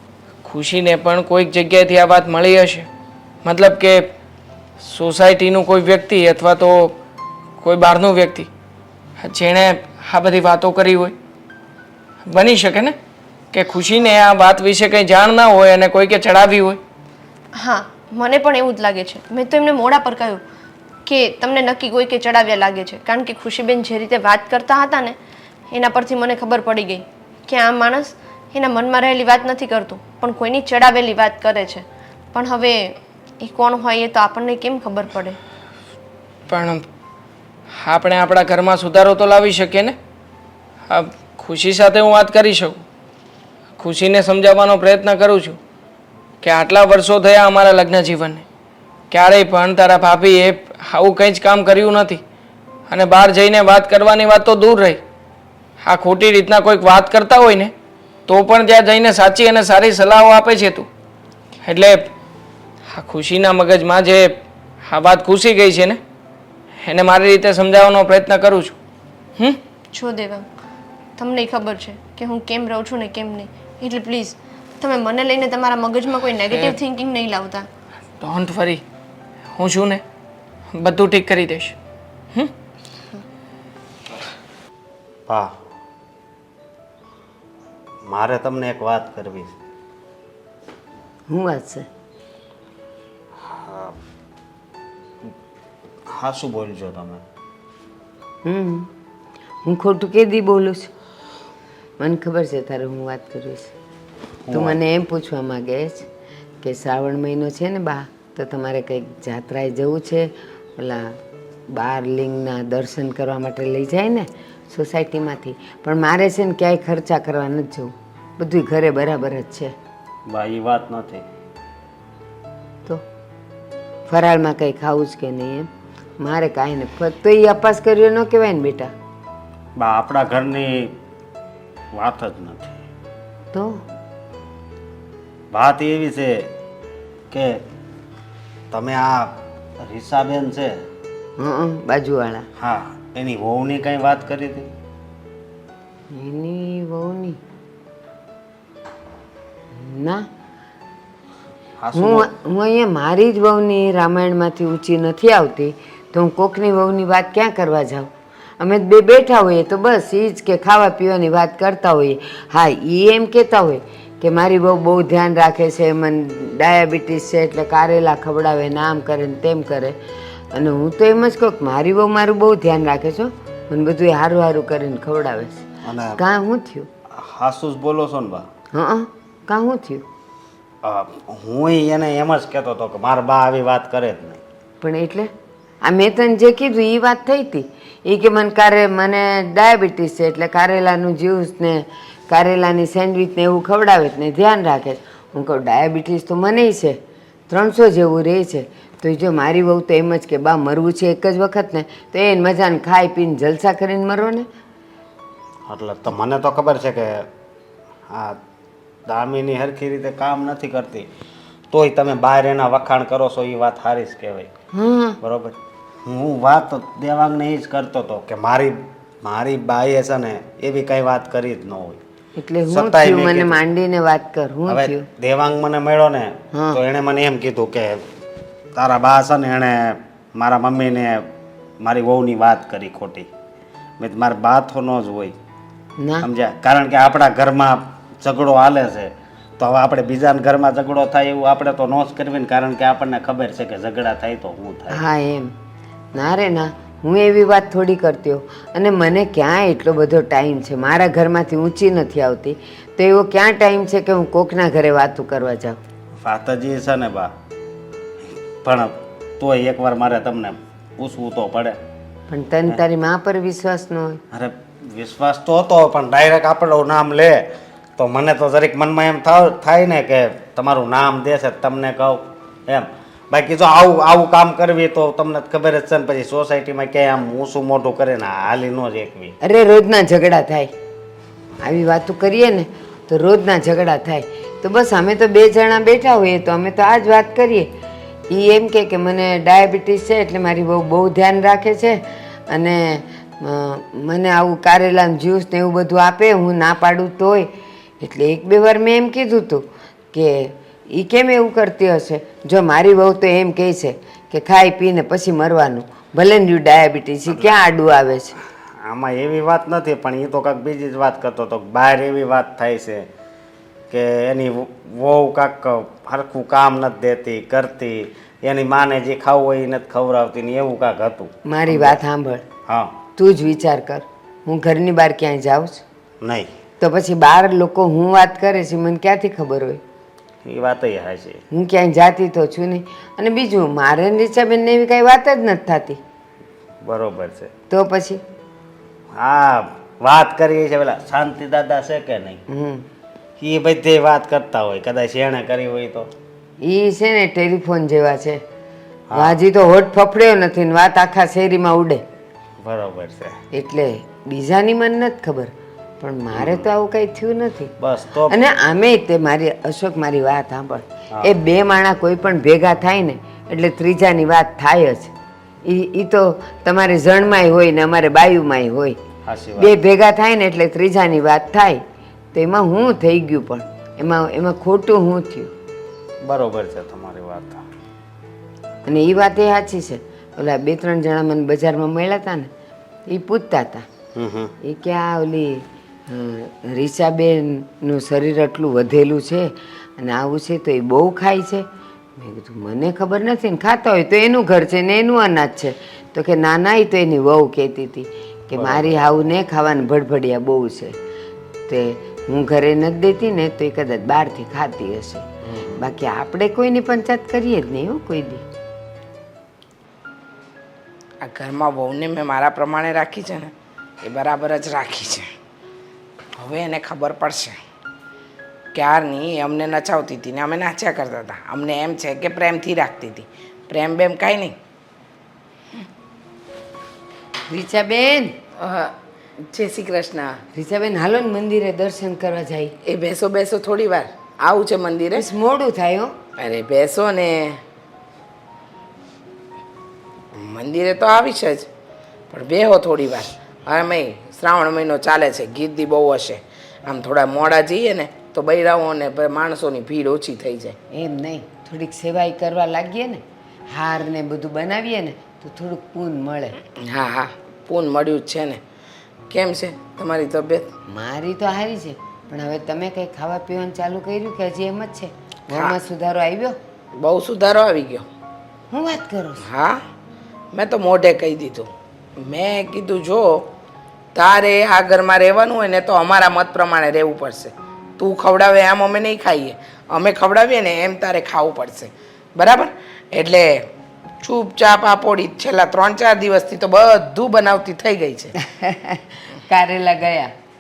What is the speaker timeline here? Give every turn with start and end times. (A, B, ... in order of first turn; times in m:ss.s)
0:00.4-0:02.9 A
0:03.4-0:04.1 A
0:04.8-0:07.0 A
0:07.6-0:08.5 A
0:09.2-0:11.1 A
0:12.3-0:13.0 A
0:13.5-0:16.8 A
0:17.5-0:20.4 B
0:21.0-0:25.2 B
0:25.7-0:35.4 B
0:36.5-0:36.8 A
0:37.7-0:40.0 A
0:40.9-0:42.8 A
0:43.8-0:45.6 A
0:46.4-0:48.4 A
0:49.1-0:52.2 A
0:52.9-0:55.0 A
0:55.8-0:57.7 A
0:58.3-1:00.9 A
1:01.6-1:02.1 A
1:02.9-1:06.0 A
1:06.8-1:08.8 A
1:09.9-1:10.5 B
1:11.2-1:17.7 B
1:18.2-1:18.8 A
1:19.5-1:20.0 A
1:20.7-1:21.8 A
1:25.3-1:25.5 C
1:28.0-1:29.5 C
1:31.3-1:31.9 D
1:33.4-1:34.0 C
1:36.1-1:37.2 C
1:38.4-1:38.9 D
1:39.6-1:40.9 D
1:42.0-1:43.7 D
1:44.4-1:44.8 C
1:44.5-1:46.1 D
1:46.6-1:51.2 D
1:51.7-1:59.7 D
2:00.3-2:01.2 C
2:04.1-2:08.9 D
2:09.8-2:11.0 C
2:11.9-2:12.8 C
2:13.5-2:13.8 D
2:15.5-2:16.5 C
2:17.3-2:17.6 C
2:18.7-2:20.8 C
2:21.4-2:22.5 D
2:22.6-2:24.7 C
2:26.1-2:27.4 D
2:29.7-2:30.3 D
2:31.8-2:32.3 C
2:31.9-2:50.0 D
2:50.5-2:55.6 D
2:55.8-2:56.2 C
2:56.2-2:56.9 D
2:57.1-2:58.5 C
2:58.7-3:00.1 D
3:00.8-3:04.4 C
3:04.8-3:05.3 D
3:05.8-3:17.0 D
3:17.5-3:24.5 D
3:25.7-3:27.3 C
3:28.1-3:28.4 C
3:29.1-3:31.1 C
3:31.7-3:34.5 C
3:34.7-3:35.2 D
3:35.2-3:42.0 C
3:42.4-3:45.1 D
3:42.7-3:43.6 C
3:44.7-3:48.0 C
3:46.5-3:46.8 D
3:48.8-3:51.3 C
3:51.8-3:53.3 C
3:54.0-3:55.3 C
3:56.0-3:56.3 D
3:56.2-4:05.0 C
4:04.9-4:05.5 D
4:06.1-4:15.8 D
4:16.2-4:17.3 C
4:18.6-4:21.8 C
4:22.3-4:24.2 D
4:24.3-4:39.4 C
4:39.4-4:40.7 D
4:41.6-4:47.7 D
4:48.3-5:08.4 D
5:08.8-5:13.1 C
5:13.9-5:22.0 C
5:21.4-5:22.4 D
5:22.7-5:23.0 C
5:23.2-5:25.8 D
5:26.2-5:26.5 C
5:26.8-5:29.8 D
5:30.4-5:31.4 C
5:31.5-5:36.0 D
5:36.8-5:37.5 C
5:37.7-5:38.2 D
5:39.1-5:42.4 C
5:42.5-5:42.9 D
5:43.4-5:46.1 C
5:46.6-5:48.4 D
5:49.1-5:49.4 C
5:49.1-5:52.0 D
5:52.6-5:53.4 C
5:53.5-5:57.7 D
5:56.3-5:56.6 C
5:57.8-5:58.4 C
5:58.3-6:05.1 D
6:05.6-6:09.0 D
6:09.2-6:09.7 C
6:09.6-6:11.8 D
6:12.3-6:15.5 D
6:16.2-6:17.6 C
6:18.8-6:22.5 D
6:23.1-6:23.9 D
6:24.1-6:24.5 C
6:24.6-6:31.6 D
6:32.2-6:40.9 D
6:38.5-6:39.0 C
6:41.7-6:48.4 D
6:45.5-6:45.8 C
6:51.2-6:55.3 E
6:56.4-6:57.6 E
6:58.7-7:04.6 E
7:07.5-7:08.4 D
7:08.6-7:10.4 E
7:10.5-7:12.7 D
7:12.8-7:15.2 E
7:15.1-7:16.1 D
7:16.4-7:17.6 E
7:20.4-7:21.7 E
7:22.3-7:30.8 E
7:30.9-7:36.6 D
7:36.8-7:38.6 E
7:39.3-7:40.7 E
7:40.9-7:46.6 D
7:45.5-7:45.8 E
7:47.0-7:48.1 E
7:48.7-7:49.4 D
7:49.4-7:49.8 E
7:50.5-7:53.5 E
7:54.1-8:03.7 E
8:04.2-8:08.4 E
8:08.4-8:10.3 D